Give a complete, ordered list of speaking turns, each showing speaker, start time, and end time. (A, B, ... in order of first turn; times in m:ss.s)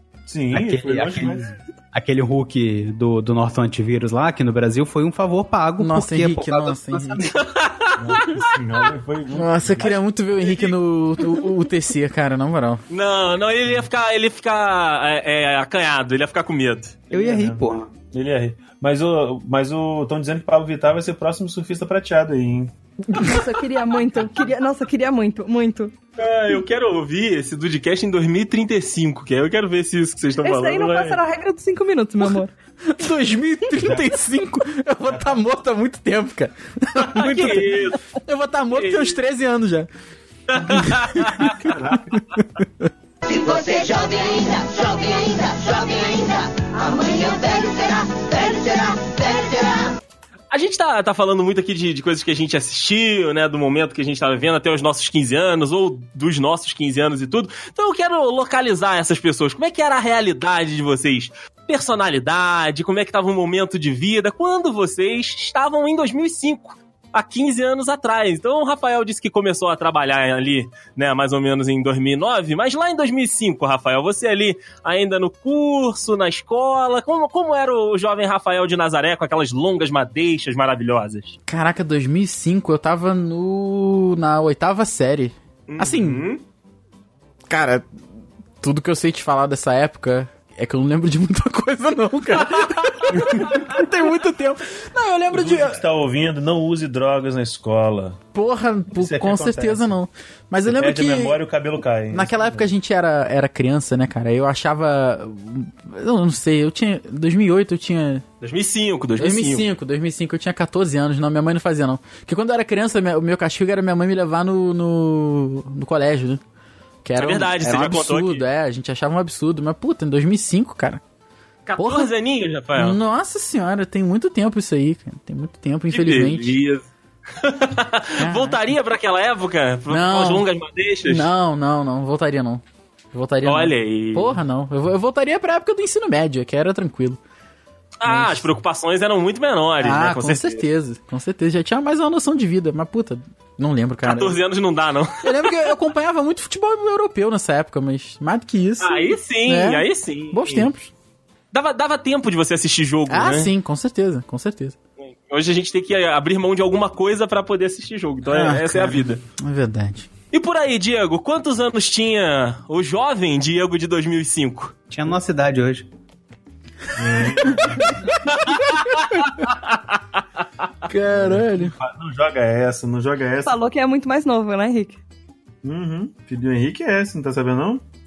0:00.3-0:01.6 A
0:00.5-0:07.4 B
0:05.8-0:07.3 C
0:07.4-0:08.5 D
0:08.0-0:10.0 A
0:09.3-0:12.8 C
0:09.8-0:10.8 D
0:12.9-0:17.0 D
0:17.1-0:22.7 A
0:17.1-0:17.9 B
0:23.1-0:25.9 E
0:26.2-0:31.2 D
0:30.4-0:32.5 E
0:32.9-0:39.9 C
0:33.8-0:34.1 A
0:35.0-0:35.4 A
0:37.1-0:38.1 D
0:38.7-0:39.2 D
0:40.5-0:41.6 D
0:40.6-0:42.9 C
0:41.6-0:42.2 A
0:43.2-0:49.9 F
0:50.5-1:21.4 D
1:21.5-1:26.2 C
1:25.7-1:26.4 D
1:27.5-1:28.0 C
1:28.6-1:35.8 C
1:32.5-1:33.6 D
1:35.3-1:38.2 A
1:38.3-1:41.4 C
1:38.9-1:40.0 A
1:40.7-1:42.7 A
1:42.1-1:48.2 C
1:48.4-1:49.7 D
1:49.2-1:56.4 C
1:57.0-2:01.0 C
1:57.2-1:58.4 D
2:01.7-2:03.0 D
2:01.8-2:02.1 C
2:02.8-2:06.6 C
2:05.9-2:11.3 D
2:08.2-2:08.6 C
2:09.9-2:10.4 C
2:11.1-2:12.6 C
2:13.1-2:17.2 C
2:13.4-2:14.4 D
2:18.0-2:20.7 D
2:18.1-2:18.5 C
2:19.8-2:24.4 C
2:24.0-2:25.7 D
2:25.2-2:30.9 C
2:28.8-2:30.7 D
2:31.5-2:33.5 D
2:33.1-2:34.8 C
2:35.0-2:39.2 D
2:38.3-2:40.1 C
2:40.3-2:44.7 D
2:44.9-2:45.9 B
2:47.0-2:48.1 A
2:48.3-2:49.5 D
2:50.9-2:51.8 C
2:51.1-2:53.6 A
2:53.4-2:55.0 E
2:55.6-2:57.9 A